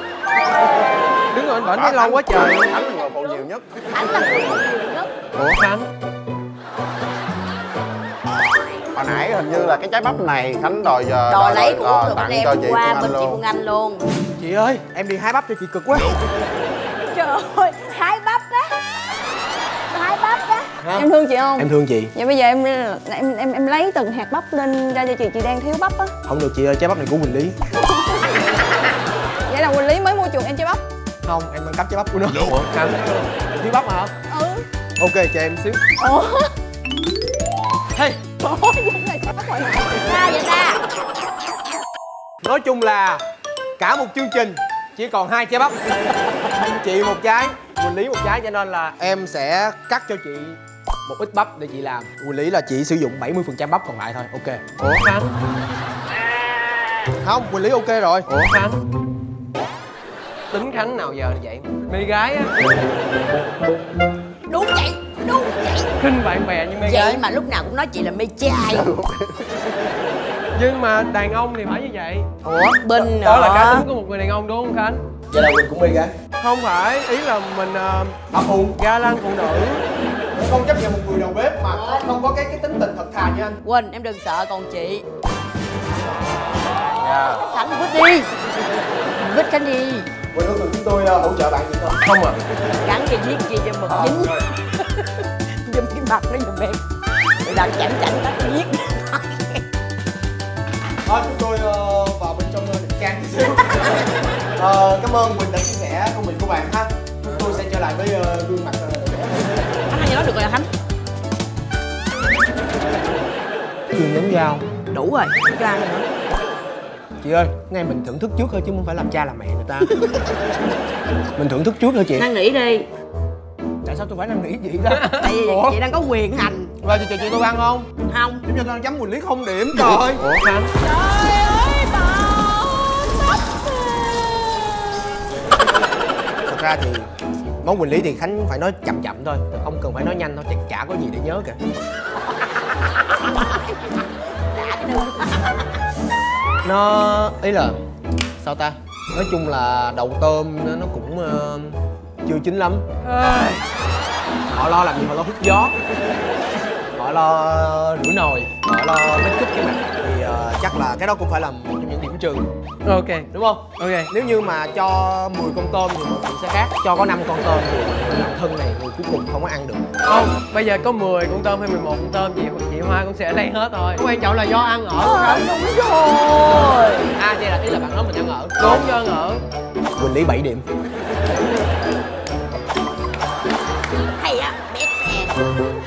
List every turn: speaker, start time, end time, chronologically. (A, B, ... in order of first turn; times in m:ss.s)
0:01.3-0:02.8 A
0:01.8-0:04.3 B
0:03.0-0:03.3 C
0:03.9-0:05.1 C
0:05.4-0:05.9 A
0:08.9-0:13.4 B
0:11.3-0:14.0 C
0:14.4-0:16.2 D
0:17.1-0:18.7 C
0:19.9-0:20.7 C
0:20.8-0:22.1 D
0:20.9-0:26.1 E
0:26.3-0:27.6 D
0:27.9-0:28.3 E
0:29.5-0:30.8 E
0:31.2-0:34.1 D
0:34.3-0:34.6 E
0:35.0-0:35.8 D
0:36.0-0:36.5 C
0:38.4-0:40.3 E
0:40.0-0:40.8 C
0:42.4-0:43.2 D
0:43.8-0:55.0 D
0:54.9-0:55.3 A
0:57.2-0:58.5 D
0:58.3-0:58.8 A
1:00.5-1:02.6 A
1:04.5-1:05.9 C
1:06.0-1:07.2 A
1:06.8-1:08.9 C
1:08.8-1:09.4 B
1:10.6-1:12.4 A
1:12.4-1:13.9 C
1:13.0-1:15.0 A
1:15.3-1:16.1 D
1:16.4-1:18.2 A
1:18.3-1:18.8 D
1:18.8-1:19.8 A
1:20.3-1:23.6 D
1:23.6-1:25.0 C
1:27.2-1:28.3 C
1:29.2-1:30.1 C
1:30.3-1:32.0 D
1:32.0-1:32.4 A
1:32.8-1:36.8 C
1:33.9-1:34.4 D
1:37.4-1:39.6 C
1:41.0-1:49.7 D
1:47.3-1:47.6 A
1:49.9-1:50.7 C
1:53.9-1:54.7 D
1:54.9-1:56.1 C
1:57.2-2:00.2 D
2:01.4-2:02.3 D
2:02.2-2:02.9 C
2:03.8-2:05.8 D
2:04.9-2:05.3 A
2:05.2-2:06.7 C
2:06.8-2:07.9 D
2:08.1-2:08.4 C
2:08.4-2:10.4 D
2:10.1-2:10.7 A
2:10.8-2:14.7 C
2:16.5-2:17.1 D
2:17.6-2:21.6 D
2:23.3-2:23.7 C
2:24.5-2:25.6 C
2:26.6-2:27.8 D
2:28.4-2:32.8 D
2:33.0-2:33.6 A
2:34.5-2:35.8 D
2:37.0-2:42.5 D
2:42.8-2:44.1 A
2:43.3-2:49.9 D
2:50.1-2:55.4 A
2:55.0-2:57.1 C
2:57.2-2:58.8 D
2:58.6-2:59.4 A
3:00.0-3:00.6 D
3:04.2-3:05.4 C